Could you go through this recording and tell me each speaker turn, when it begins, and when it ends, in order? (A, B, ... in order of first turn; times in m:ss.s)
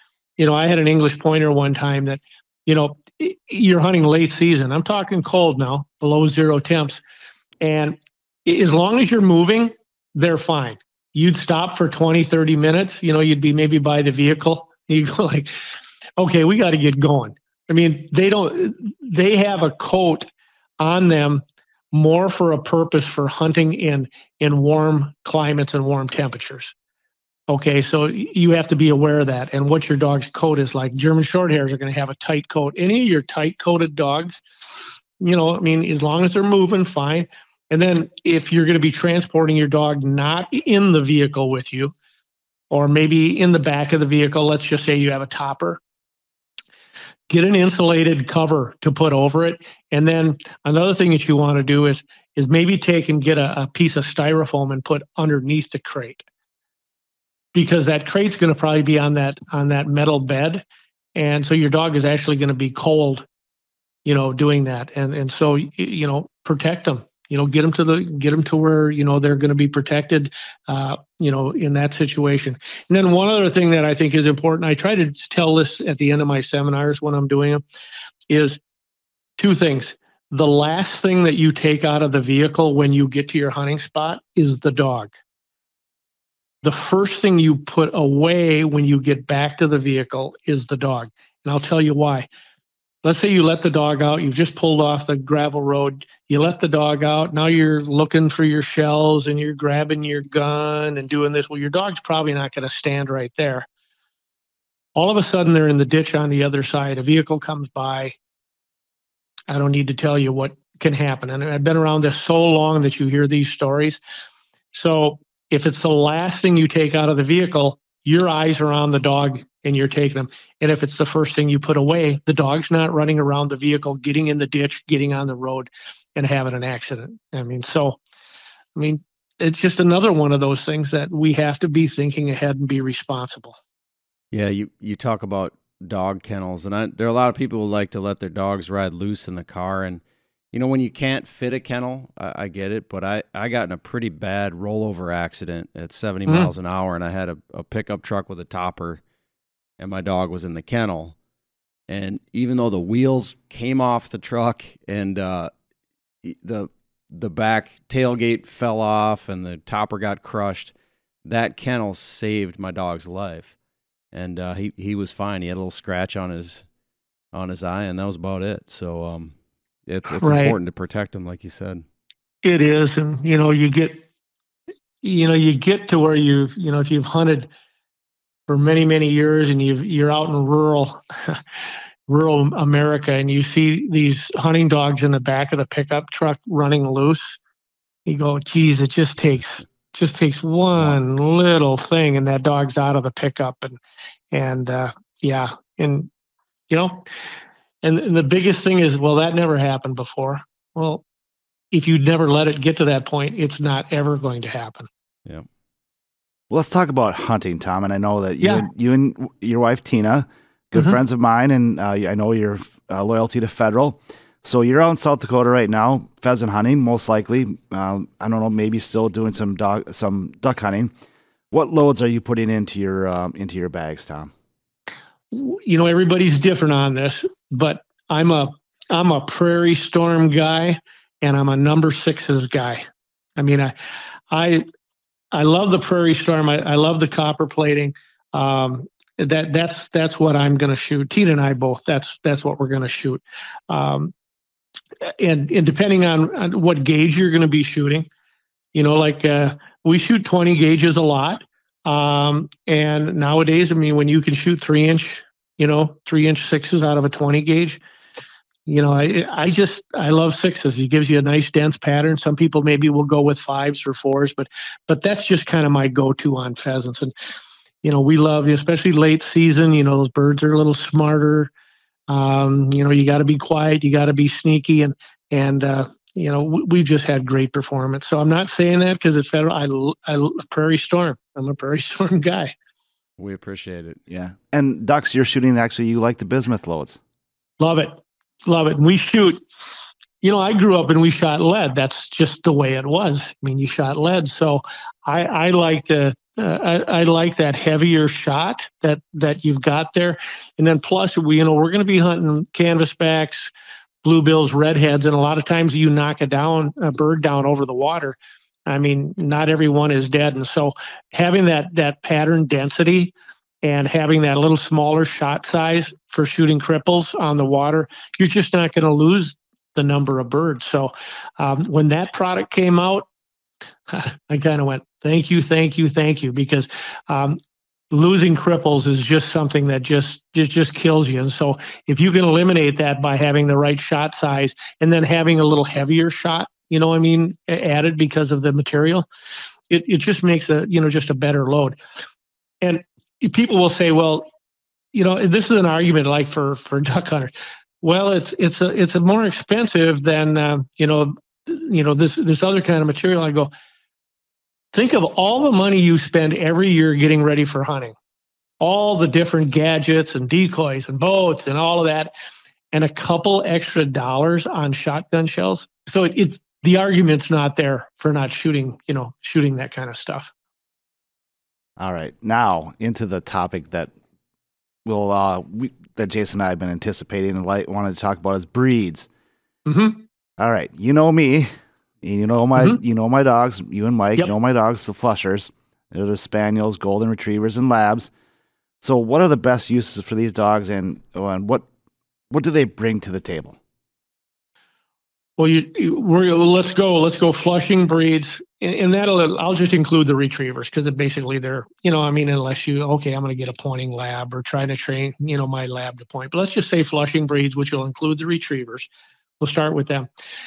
0:00.4-0:07.0 A
0:07.6-0:15.5 A
0:16.2-0:20.3 A
0:20.8-0:26.7 A
0:27.5-0:41.9 A
0:42.7-0:45.8 A
0:47.3-0:56.2 A
0:57.5-1:00.6 A
1:01.2-1:03.3 A
1:04.0-1:17.6 A
1:18.3-1:18.6 A
1:19.4-1:25.1 A
1:26.6-1:32.3 A
1:33.0-1:43.7 A
1:45.0-1:48.2 A
1:49.5-1:54.0 A
1:54.7-2:08.0 A
2:08.8-2:13.6 A
2:14.3-2:29.0 B
2:26.3-2:26.5 A
2:29.8-2:31.1 B
2:31.9-2:35.5 B
2:36.2-2:40.7 B
2:41.2-2:43.5 B
2:44.1-2:46.6 B
2:47.3-2:49.3 B
2:49.9-2:51.8 B
2:50.1-2:50.6 A
2:52.4-2:54.0 A
2:55.0-2:57.5 A
2:58.5-3:01.4 A
3:02.1-3:07.4 A
3:08.0-3:13.8 A
3:14.3-3:16.1 A
3:16.7-3:17.1 A
3:17.8-3:21.0 A
3:21.7-3:24.9 A
3:26.5-3:40.9 C
3:28.4-3:28.7 A
3:41.5-3:44.3 C
3:45.3-3:52.8 A
3:53.4-3:53.7 A
3:54.3-3:54.6 A
3:55.3-4:04.1 A
4:05.0-4:08.0 A
4:08.7-4:17.8 A
4:18.7-4:27.1 A
4:27.8-4:31.5 A
4:32.1-4:42.5 A
4:43.2-4:44.0 B
4:44.1-4:47.0 C
4:47.6-4:49.4 A
4:50.2-5:03.5 A
5:04.0-5:08.2 A
5:08.7-5:23.0 A
5:23.9-5:27.4 A
5:27.9-5:39.1 A
5:39.7-5:41.8 A
5:42.6-5:44.3 A
5:44.9-5:53.5 A
5:54.7-5:57.9 A
5:58.6-6:02.1 A
6:02.7-6:10.3 A
6:11.8-6:13.9 C
6:14.8-6:19.1 C
6:19.6-6:20.0 A
6:20.4-6:21.5 C
6:22.0-6:28.1 C
6:28.8-6:31.6 C
6:32.3-6:33.6 C
6:35.4-6:48.9 A
6:49.4-6:50.1 A